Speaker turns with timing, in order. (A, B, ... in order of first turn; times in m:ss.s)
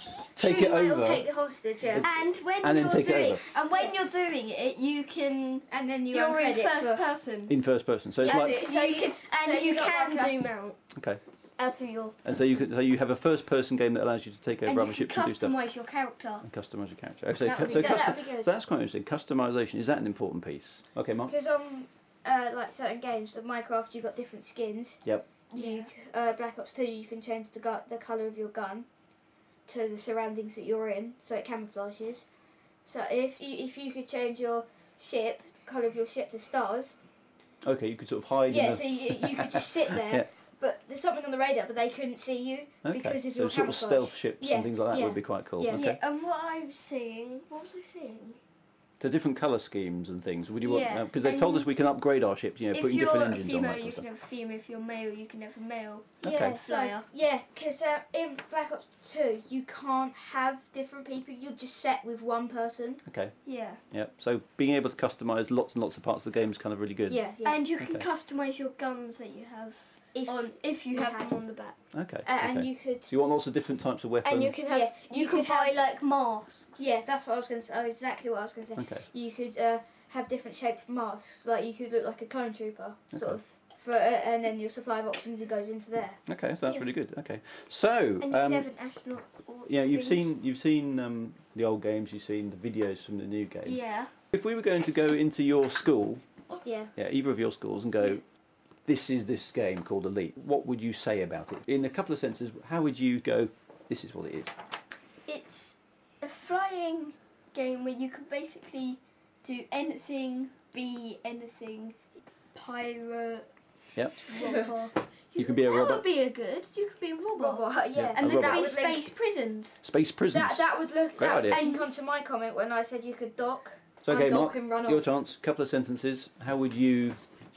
0:00.3-0:02.2 A
0:00.4-0:01.3 B
0:01.8-0:03.4 B
0:02.0-0:07.6 C
0:03.5-0:03.9 A
0:05.7-0:07.0 A
0:07.5-0:08.6 B
0:08.2-0:10.8 C
0:08.2-0:10.4 A
0:10.9-0:11.2 B
0:11.6-0:12.2 C
0:12.2-0:15.5 B
0:14.6-0:16.4 C
0:16.4-0:21.3 B
0:17.4-0:18.5 C
0:17.5-0:18.4 A
0:21.3-0:28.9 A
0:25.0-0:25.4 B
0:25.5-0:25.9 C
0:29.6-0:32.2 A
0:32.8-0:37.0 A
0:37.6-0:40.3 B
0:38.5-0:46.0 A
0:42.8-0:46.0 B
0:44.9-0:48.4 C
0:49.0-0:54.0 B
0:50.6-0:51.8 C
0:52.7-0:57.1 C
0:56.2-0:56.6 B
0:56.4-1:03.0 A
1:03.0-1:03.4 B
1:03.4-1:03.8 C
1:03.9-1:07.2 B
1:07.1-1:07.6 A
1:07.3-1:11.8 C
1:07.8-1:08.0 B
1:10.1-1:11.4 A
1:11.9-1:14.6 B
1:12.2-1:13.1 A
1:14.2-1:16.8 C
1:14.6-1:15.8 A
1:16.8-1:26.2 A
1:18.8-1:19.1 B
1:23.1-1:23.4 B
1:26.2-1:28.7 B
1:26.6-1:26.9 C
1:28.2-1:30.3 C
1:29.7-1:36.2 B
1:33.6-1:34.1 C
1:36.5-1:36.9 C
1:37.0-1:38.2 B
1:38.8-1:44.5 B
1:45.2-1:53.5 C
1:54.2-1:59.8 C
1:54.3-1:54.8 A
1:55.4-1:56.0 B
1:57.4-1:59.0 A
1:57.9-1:58.5 B
1:59.8-2:00.6 B
2:00.3-2:05.1 A
2:01.2-2:01.6 B
2:01.4-2:01.9 C
2:04.0-2:07.2 B